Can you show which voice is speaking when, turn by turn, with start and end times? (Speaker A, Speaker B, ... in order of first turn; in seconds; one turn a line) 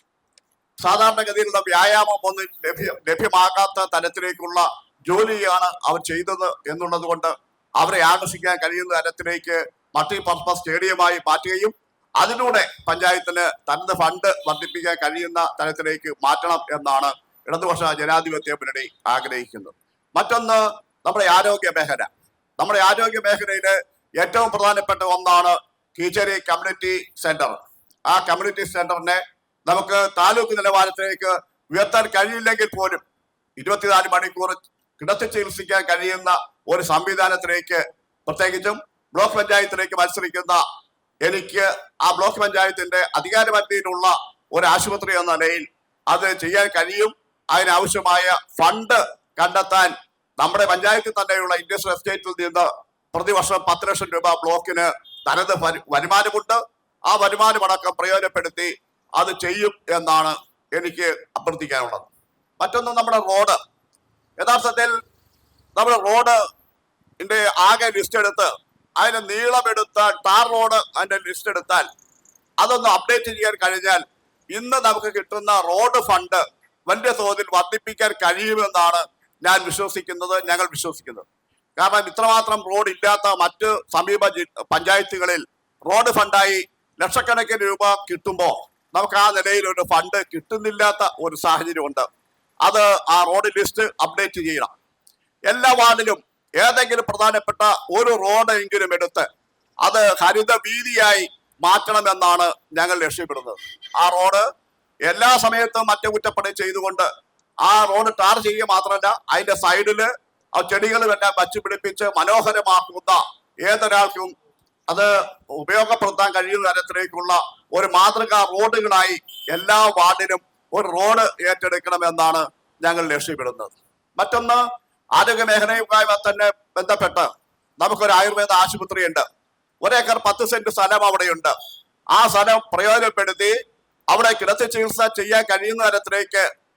Speaker A: 0.8-33.0
Speaker A: 33.6-40.6
Speaker A: 41.2-62.1
Speaker A: 62.6-63.6
Speaker A: 64.4-64.9
Speaker A: 65.8-66.4
Speaker A: 67.2-71.9
Speaker A: 72.6-81.3
Speaker A: 81.8-92.1
Speaker A: 92.6-94.7
Speaker A: 95.5-99.3
Speaker A: 99.8-104.5
Speaker A: 105.1-107.1
Speaker A: 107.6-114.3
Speaker A: 114.9-124.6
Speaker A: 125.2-127.3
Speaker A: 127.8-129.2
Speaker A: 129.8-131.5
Speaker A: 132.1-133.6
Speaker A: 134.1-136.5